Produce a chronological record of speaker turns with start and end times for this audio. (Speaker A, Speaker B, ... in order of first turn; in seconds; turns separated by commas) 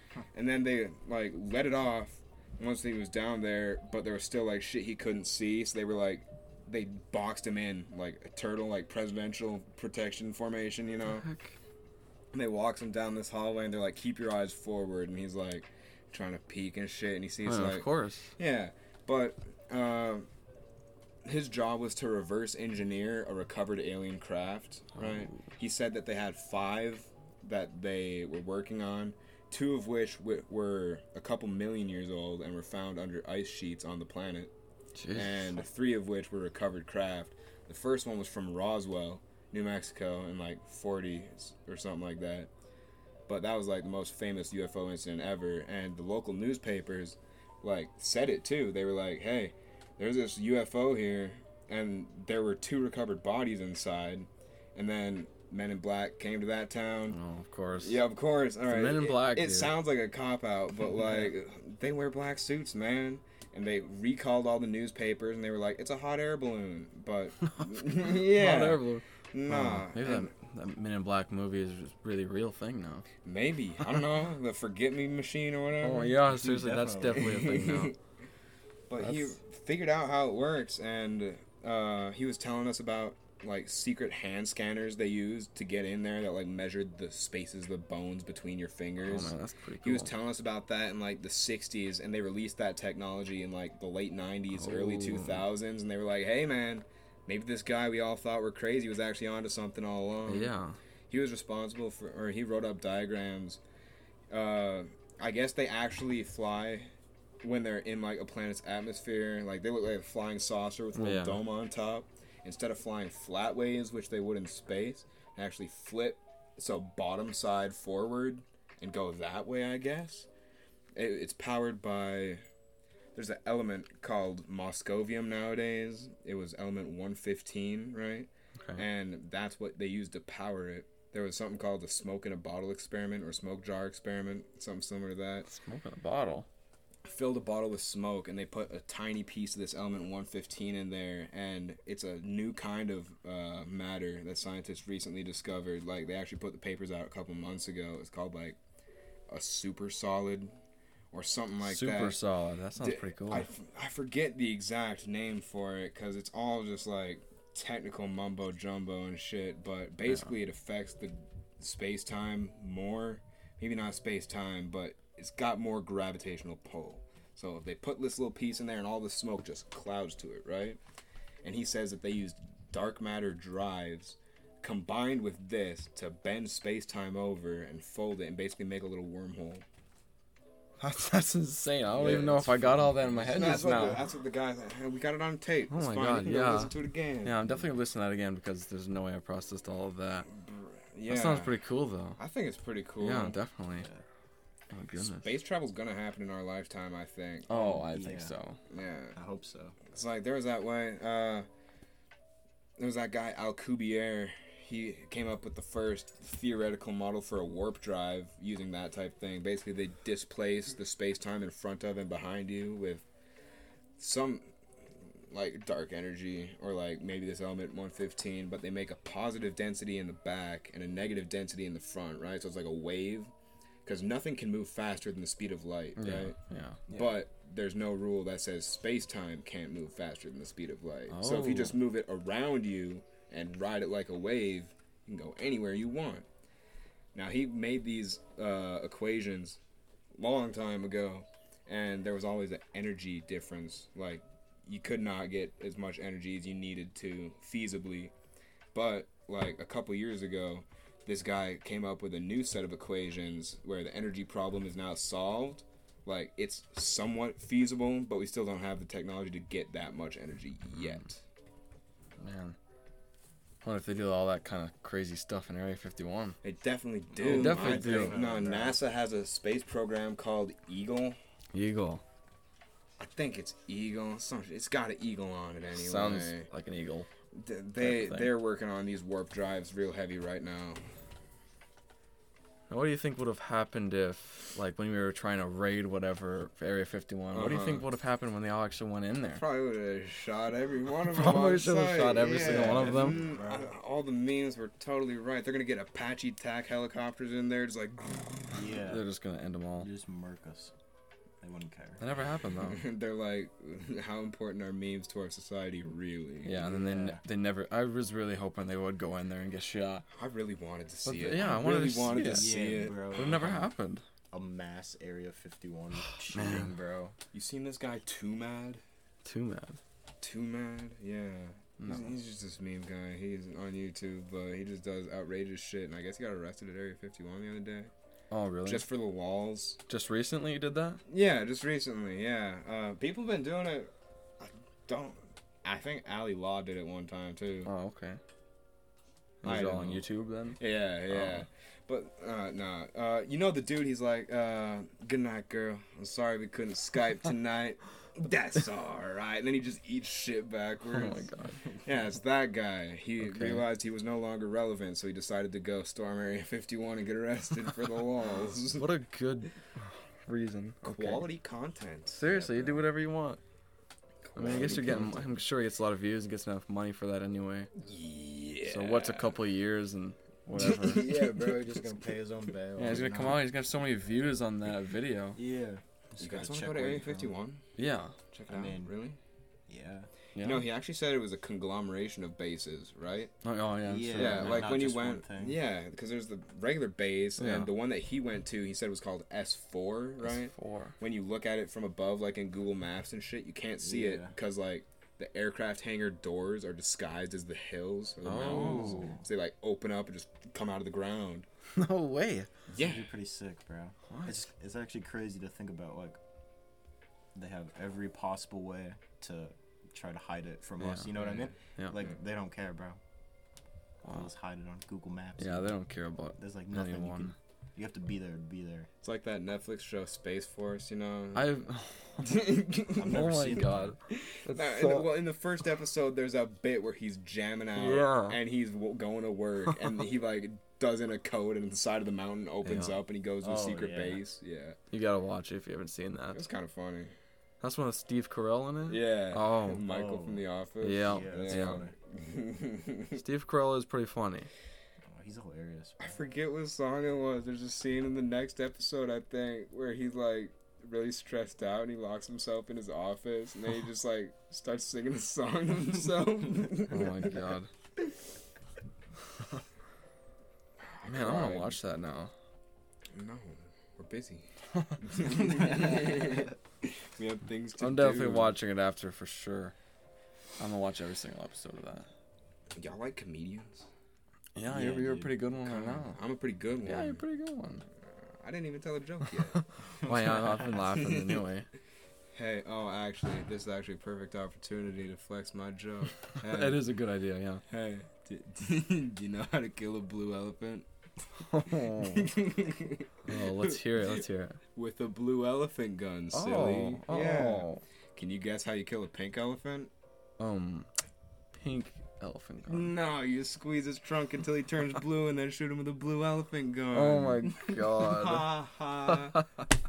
Speaker A: 0.3-11.2, Speaker B: 11.1-11.5, Speaker A: 12.3-17.9, Speaker B: 17.4-18.3, Speaker A: 18.4-20.3, Speaker A: 21.2-34.5, Speaker B: 24.9-25.4, Speaker B: 35.0-35.5, Speaker A: 35.1-42.5, Speaker A: 43.3-57.2, Speaker B: 57.1-58.0, Speaker A: 57.8-70.3, Speaker B: 58.7-59.8, Speaker B: 67.5-73.1, Speaker A: 73.2-76.2, Speaker B: 75.8-77.9, Speaker C: 76.3-77.4, Speaker A: 77.1-78.0, Speaker A: 78.9-100.5, Speaker B: 79.0-79.3, Speaker B: 89.0-90.1, Speaker B: 94.5-95.4, Speaker B: 100.3-100.8, Speaker A: 101.1-103.6, Speaker A: 104.3-120.3, Speaker B: 110.9-111.4, Speaker A: 120.9-122.4, Speaker A: 123.1-135.5, Speaker B: 135.4-136.5, Speaker A: 137.0-148.6, Speaker A: 149.3-150.5, Speaker A: 151.1-152.2, Speaker B: 151.6-153.5, Speaker A: 152.8-170.8, Speaker A: 171.4-179.6, Speaker B: 180.8-184.0, Speaker A: 181.9-187.5, Speaker C: 182.0-184.1, Speaker B: 185.7-190.3, Speaker A: 190.3-191.6, Speaker B: 191.1-192.2, Speaker A: 192.2-193.3, Speaker B: 193.0-193.9, Speaker C: 193.8-194.0, Speaker B: 194.7-195.3, Speaker A: 195.0-197.5, Speaker B: 197.5-198.6, Speaker C: 197.5-198.3, Speaker A: 198.7-199.2, Speaker C: 199.1-199.8, Speaker A: 199.9-201.4, Speaker A: 202.8-213.0, Speaker A: 214.0-214.5, Speaker A: 215.3-223.3, Speaker A: 223.8-226.4, Speaker B: 226.0-226.8, Speaker C: 226.9-227.2, Speaker A: 226.9-236.2, Speaker B: 231.1-231.8, Speaker A: 237.1-239.6, Speaker A: 240.2-248.1, Speaker A: 248.7-261.2, Speaker B: 262.2-262.6, Speaker B: 263.6-266.4, Speaker A: 266.4-271.2, Speaker C: 267.1-268.8, Speaker B: 267.2-268.1, Speaker B: 271.5-272.0, Speaker A: 273.0-276.5, Speaker B: 275.7-277.1, Speaker A: 277.3-280.8, Speaker B: 277.8-278.3, Speaker B: 282.7-289.4, Speaker A: 287.3-287.8, Speaker A: 289.4-298.8, Speaker B: 291.1-293.2, Speaker C: 292.2-293.7, Speaker C: 298.5-299.1, Speaker B: 298.8-299.9, Speaker C: 299.8-300.7, Speaker C: 301.4-302.1, Speaker B: 302.0-302.8, Speaker A: 302.6-306.7, Speaker B: 306.4-310.1, Speaker C: 306.6-307.2, Speaker A: 310.1-313.7, Speaker B: 311.0-312.6, Speaker C: 311.3-313.6, Speaker B: 313.1-314.0, Speaker C: 314.3-317.2, Speaker B: 316.3-316.7, Speaker A: 317.3-318.8, Speaker B: 319.2-319.8, Speaker A: 320.2-327.9, Speaker B: 321.8-322.1, Speaker B: 328.3-328.9, Speaker A: 328.7-329.8, Speaker B: 329.9-331.0, Speaker A: 331.1-337.7, Speaker B: 337.7-338.2, Speaker B: 339.4-341.4, Speaker A: 339.4-340.1, Speaker A: 340.6-351.3, Speaker B: 350.9-351.6, Speaker A: 351.8-358.9, Speaker B: 353.2-353.6, Speaker B: 358.7-361.2, Speaker A: 360.8-362.9, Speaker B: 362.1-363.4, Speaker A: 364.2-365.4, Speaker B: 364.4-367.7, Speaker A: 367.8-369.3, Speaker B: 368.6-371.0, Speaker A: 370.6-371.8, Speaker C: 370.8-373.5, Speaker B: 372.8-375.4, Speaker C: 375.4-377.3, Speaker A: 376.2-377.6, Speaker B: 377.8-378.1, Speaker A: 378.3-379.2, Speaker C: 378.5-378.9, Speaker C: 379.7-380.1, Speaker B: 380.4-380.7, Speaker A: 380.4-383.3, Speaker B: 383.4-384.7, Speaker C: 383.8-385.6, Speaker A: 384.1-401.4, Speaker B: 387.4-387.7, Speaker B: 390.2-390.9, Speaker C: 393.8-394.3, Speaker B: 398.2-399.1, Speaker C: 398.4-399.2, Speaker B: 401.7-402.5, Speaker A: 402.7-403.1, Speaker C: 402.8-406.2, Speaker B: 404.1-404.5, Speaker C: 407.3-413.0, Speaker B: 410.8-411.1, Speaker A: 411.1-411.5, Speaker C: 414.1-415.7, Speaker B: 415.4-417.3, Speaker C: 416.4-418.9, Speaker A: 419.0-421.7, Speaker B: 421.3-422.5, Speaker A: 422.2-423.4, Speaker C: 422.9-423.9, Speaker B: 423.0-425.1, Speaker A: 424.1-434.8, Speaker B: 427.8-428.4, Speaker B: 432.6-433.0, Speaker C: 433.4-434.2, Speaker B: 434.9-436.4, Speaker A: 436.3-437.1, Speaker B: 437.6-439.8, Speaker A: 438.9-443.2, Speaker C: 439.8-440.4, Speaker B: 440.8-441.8, Speaker C: 441.0-441.9, Speaker B: 443.1-444.5, Speaker C: 445.1-446.2, Speaker A: 446.0-457.4, Speaker B: 456.9-457.7, Speaker A: 460.9-461.8, Speaker B: 461.1-462.3, Speaker A: 463.1-468.6, Speaker B: 467.8-469.7, Speaker B: 470.6-472.1, Speaker A: 472.8-473.9, Speaker B: 474.6-476.2, Speaker C: 474.7-475.3, Speaker A: 475.6-477.2, Speaker B: 476.8-477.8, Speaker A: 478.0-481.4, Speaker B: 479.5-481.7, Speaker A: 482.3-486.8, Speaker B: 486.4-487.6, Speaker A: 487.7-490.9, Speaker B: 491.4-492.3, Speaker A: 491.8-494.1, Speaker B: 493.2-494.6, Speaker A: 494.7-499.9, Speaker B: 496.3-497.8, Speaker B: 500.4-500.9, Speaker B: 501.5-502.9, Speaker A: 502.7-509.4, Speaker B: 506.9-508.5, Speaker B: 509.1-509.4